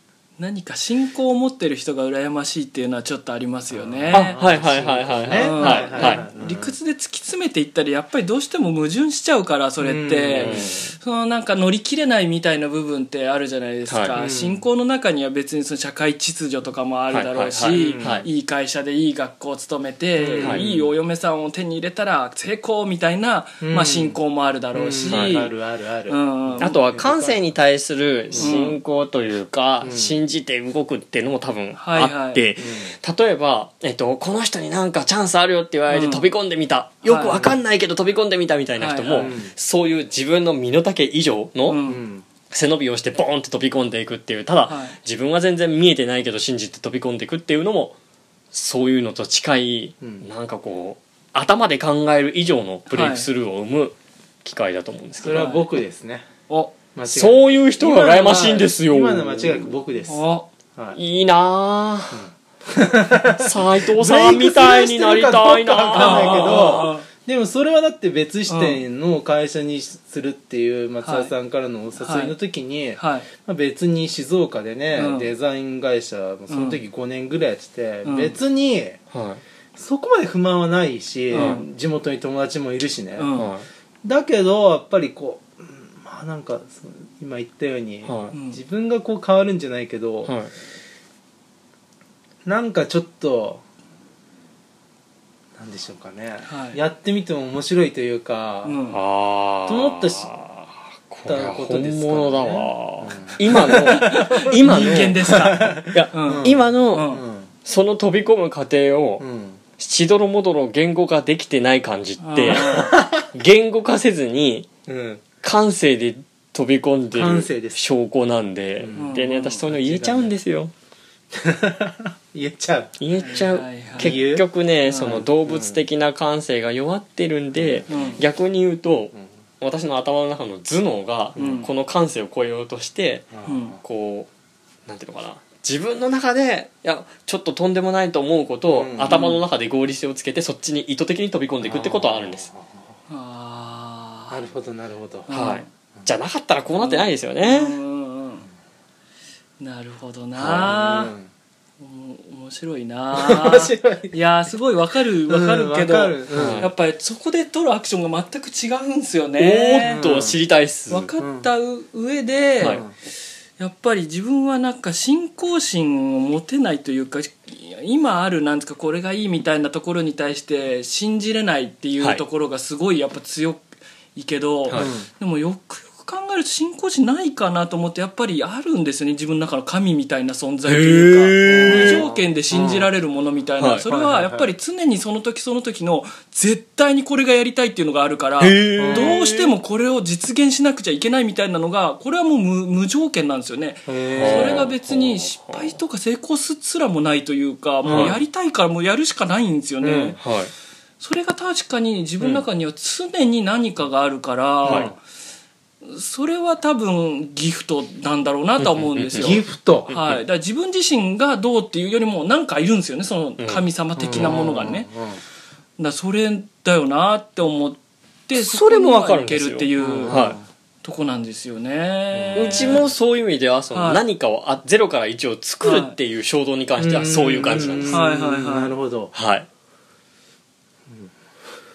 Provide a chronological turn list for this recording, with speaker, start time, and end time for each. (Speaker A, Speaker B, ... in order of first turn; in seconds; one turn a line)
Speaker A: 0.4-4.4
Speaker B: 3.7-6.7
Speaker C: 4.1-6.2
Speaker A: 5.3-25.5
Speaker B: 9.8-10.7
Speaker C: 10.3-10.9
Speaker C: 13.9-14.1
Speaker B: 14.1-14.6
Speaker C: 17.1-18.3
Speaker B: 17.7-18.2
Speaker B: 20.2-20.8
Speaker C: 20.4-20.7
Speaker B: 23.6-24.2
Speaker B: 24.7-27.4
Speaker C: 25.1-25.5
Speaker A: 26.1-27.3
Speaker C: 26.6-41.8
Speaker B: 28.3-28.6
Speaker A: 28.4-28.8
Speaker B: 29.8-30.1
Speaker A: 31.7-32.4
Speaker B: 32.6-32.9
Speaker A: 35.9-36.3
Speaker A: 37.0-37.5
Speaker A: 38.8-39.3
Speaker B: 39.1-39.5
Speaker A: 41.7-42.0
Speaker B: 41.8-42.2
Speaker C: 42.5-48.0
Speaker A: 44.6-45.0
Speaker C: 48.5-55.5
Speaker B: 50.0-50.3
Speaker A: 52.9-53.3
Speaker B: 55.2-56.2
Speaker A: 55.3-55.6
Speaker A: 56.5-56.7
Speaker B: 56.9-60.2
Speaker C: 57.1-59.7
Speaker A: 60.1-60.5
Speaker C: 60.9-62.2
Speaker B: 62.1-79.0
Speaker C: 63.2-66.9
Speaker A: 65.9-67.0
Speaker A: 68.5-68.8
Speaker A: 71.0-71.3
Speaker A: 72.0-72.3
Speaker A: 73.0-73.3
Speaker A: 74.9-75.3
Speaker A: 76.5-76.8
Speaker A: 78.0-78.3
Speaker C: 79.1-79.4
Speaker B: 79.7-83.4
Speaker A: 81.3-81.7
Speaker C: 81.3-81.6
Speaker A: 83.2-83.5
Speaker C: 83.3-83.6
Speaker B: 84.0-90.3
Speaker C: 88.0-88.3
Speaker A: 88.3-88.6
Speaker C: 90.2-90.5
Speaker B: 92.4-93.6
Speaker B: 95.6-98.8
Speaker A: 96.5-96.8
Speaker A: 98.6-99.0
Speaker C: 98.9-107.1
Speaker B: 99.7-100.3
Speaker B: 101.2-107.5
Speaker A: 103.5-107.2
Speaker C: 107.6-109.2
Speaker B: 109.2-109.6
Speaker C: 109.8-114.7
Speaker A: 112.2-112.9
Speaker B: 112.4-113.3
Speaker B: 114.9-115.2
Speaker C: 115.4-120.7
Speaker B: 117.1-117.8
Speaker B: 118.8-119.2
Speaker A: 118.9-119.7
Speaker B: 119.7-120.3
Speaker B: 121.3-123.0
Speaker C: 123.0-134.3
Speaker A: 123.2-124.2
Speaker B: 124.0-125.8
Speaker A: 124.9-125.2
Speaker B: 127.5-128.1
Speaker A: 127.9-128.2
Speaker B: 131.4-131.7
Speaker A: 131.4-131.7
Speaker B: 133.3-133.8
Speaker A: 133.4-133.8
Speaker C: 134.8-142.5
Speaker B: 138.7-139.3
Speaker A: 139.1-139.4
Speaker B: 141.6-142.7
Speaker A: 143.1-144.4
Speaker B: 144.3-145.3
Speaker A: 145.3-145.7
Speaker C: 145.3-147.8
Speaker A: 146.8-148.5
Speaker A: 149.6-151.1
Speaker C: 150.4-150.7
Speaker B: 150.6-151.3
Speaker A: 151.8-160.1
Speaker B: 153.1-154.1
Speaker B: 155.3-156.7
Speaker C: 156.3-156.7
Speaker C: 159.4-161.1
Speaker B: 159.8-160.4
Speaker A: 160.9-162.8
Speaker B: 161.2-161.5
Speaker B: 162.6-162.9
Speaker A: 163.6-200.2
Speaker B: 174.7-175.1
Speaker C: 180.7-182.1
Speaker B: 181.5-182.9
Speaker C: 183.6-183.8
Speaker B: 183.9-184.5
Speaker C: 188.4-189.5
Speaker B: 188.8-189.2
Speaker B: 193.9-194.6
Speaker C: 194.2-195.8
Speaker B: 197.8-198.2
Speaker C: 197.9-198.2
Speaker B: 199.8-200.2
Speaker C: 200.2-200.5
Speaker A: 201.0-204.9
Speaker B: 204.6-204.9
Speaker A: 205.8-214.9
Speaker C: 208.6-210.2
Speaker B: 209.2-209.9
Speaker C: 213.4-214.4
Speaker B: 214.0-215.2
Speaker A: 215.8-220.3
Speaker C: 218.3-220.4
Speaker B: 219.8-220.4
Speaker A: 220.8-222.8
Speaker B: 222.1-222.8
Speaker C: 222.3-228.0
Speaker A: 223.7-224.0
Speaker A: 225.6-225.9
Speaker B: 226.8-229.1
Speaker A: 227.9-228.7
Speaker C: 229.1-229.5